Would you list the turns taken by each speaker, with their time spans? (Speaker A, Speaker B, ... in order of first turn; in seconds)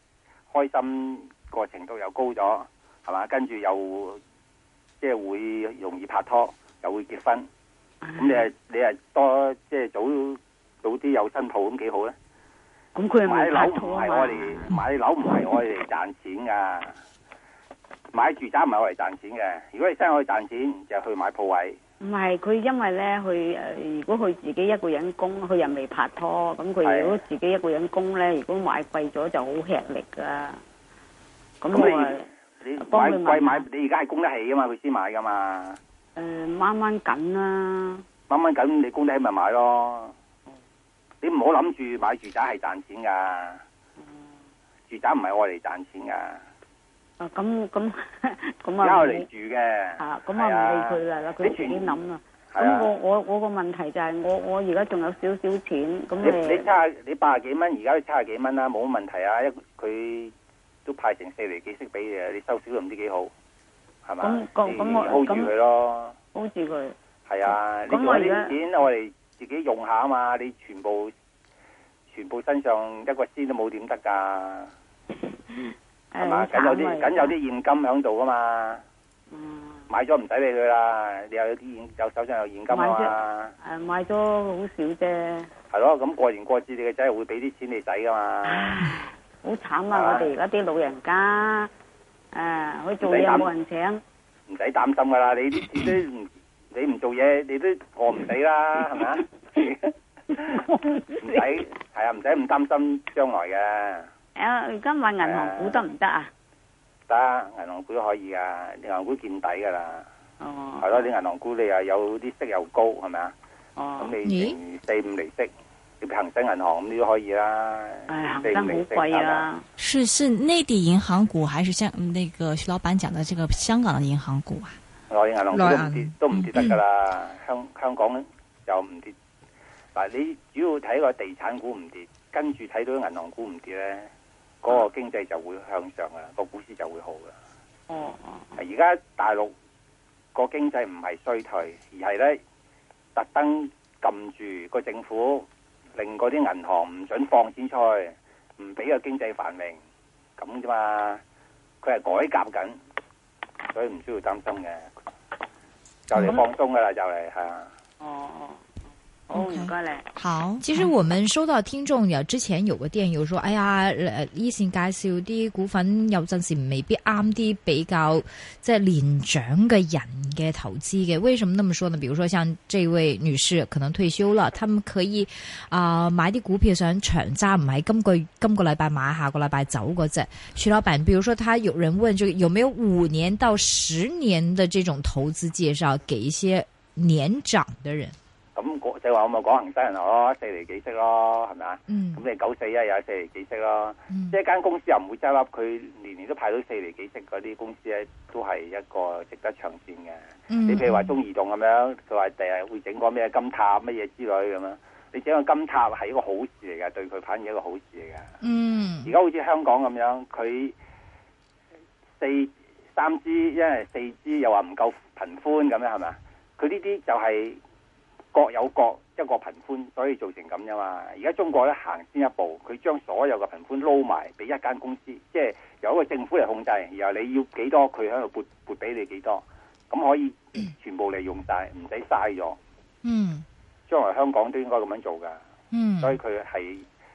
Speaker A: 0.5-4.2, 5.0-7.5, 8.2-12.1, 13.2-17.0, 18.1-21.8, 26.8-27.2, 31.7-35.8, 38.3-40.1, 41.2-43.6, 44.9-46.4, 48.8-52.0, 52.5-52.9, 56.2-60.3, 60.9-63.3, 64.0-66.2, 67.3-71.1, 72.1-74.7, 76.2-78.8, 79.9-83.5, 85.7-88.8, 89.9-90.3, 93.0-93.5, 94.5-104.1, 105.2-105.8, 107.1-110.1, 110.8-113.3, 114.0-119.5, 125.1-129.1, 129.9-134.1, 134.6-137.3, 138.6-139.5, 140.3-142.4, 143.1-149.8, 150.4-151.2, 151.8-152.8, 153.7-154.9, 156.1-157.7, 188.6-208.3, 209.0-210.7, 212.2-217.6, 218.3-232.6, 233.9-235.4, 236.0-236.8
Speaker B: 12.9-14.8, 22.0-30.6, 31.6-32.2, 32.8-33.6, 36.1-38.0, 44.0-44.3, 47.2-49.3, 50.0-56.6, 64.2-65.5, 66.3-67.0, 67.9-68.5, 75.5-77.3, 79.3-79.9, 82.7-85.5, 88.4-91.7, 92.3-94.0, 104.3-106.3, 110.4-111.0, 113.8-114.1, 118.1-119.6, 137.9-138.5, 158.0-158.7, 159.3-160.1
Speaker C: 114.2-114.6, 125.5-126.1, 160.6-188.2, 191.9-192.2, 194.1-194.4, 200.5-201.1, 208.4-209.1, 233.0-233.4, 235.7-236.2
Speaker D: 119.8-124.8, 159.3-160.8